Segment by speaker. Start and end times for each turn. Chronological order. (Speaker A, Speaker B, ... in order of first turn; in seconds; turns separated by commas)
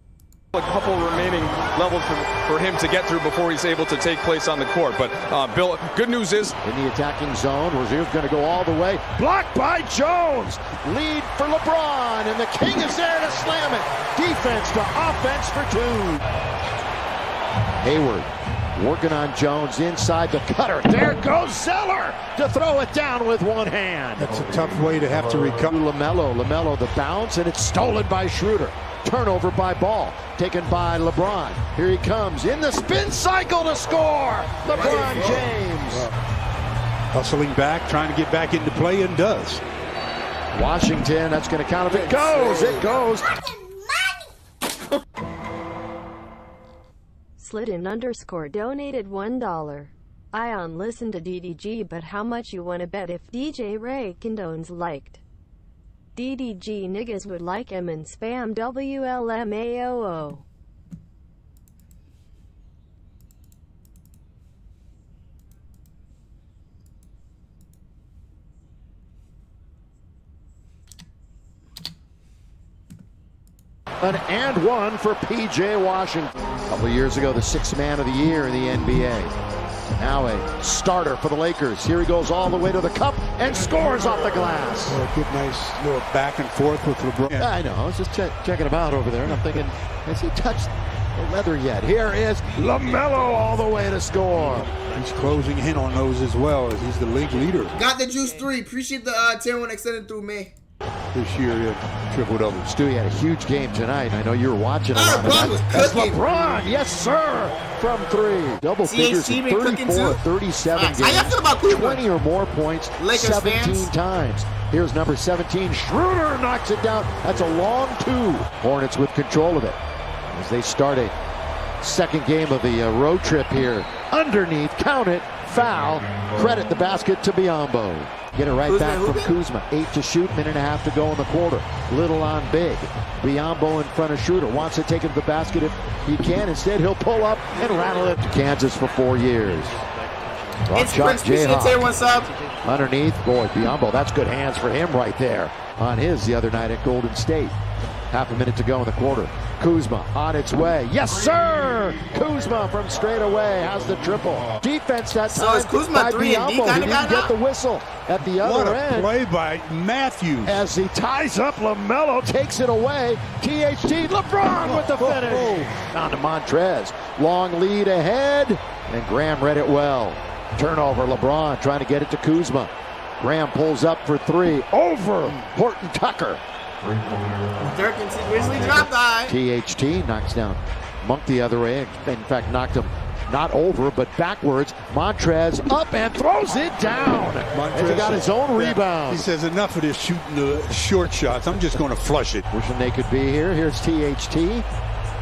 Speaker A: 0.5-6.5, Speaker B: 6.6-16.2, Speaker B: 17.8-24.3, Speaker C: 24.2-25.7, Speaker B: 25.7-36.1, Speaker D: 34.7-35.5, Speaker C: 37.1-39.6, Speaker B: 40.5-43.3, Speaker D: 41.9-43.5, Speaker E: 47.4-55.2, Speaker E: 56.1-60.5, Speaker B: 74.0-79.3, Speaker B: 80.0-85.0, Speaker C: 84.9-87.5, Speaker B: 87.3-94.7, Speaker C: 94.9-97.8, Speaker D: 97.7-100.5, Speaker C: 101.1-102.7, Speaker B: 102.6-119.8, Speaker D: 104.9-106.2, Speaker D: 108.8-110.2, Speaker D: 110.7-112.1, Speaker D: 113.0-113.9, Speaker B: 120.3-121.1, Speaker B: 121.8-139.8, Speaker D: 128.7-129.4, Speaker B: 140.7-141.9, Speaker D: 140.7-142.3, Speaker B: 142.6-147.6, Speaker B: 148.1-159.1, Speaker D: 155.2-157.3, Speaker C: 158.3-160.7, Speaker B: 160.4-176.4, Speaker C: 164.6-165.7, Speaker D: 175.2-175.5, Speaker D: 177.6-179.4, Speaker B: 179.3-189.3, Speaker C: 187.5-192.5, Speaker B: 192.5-194.7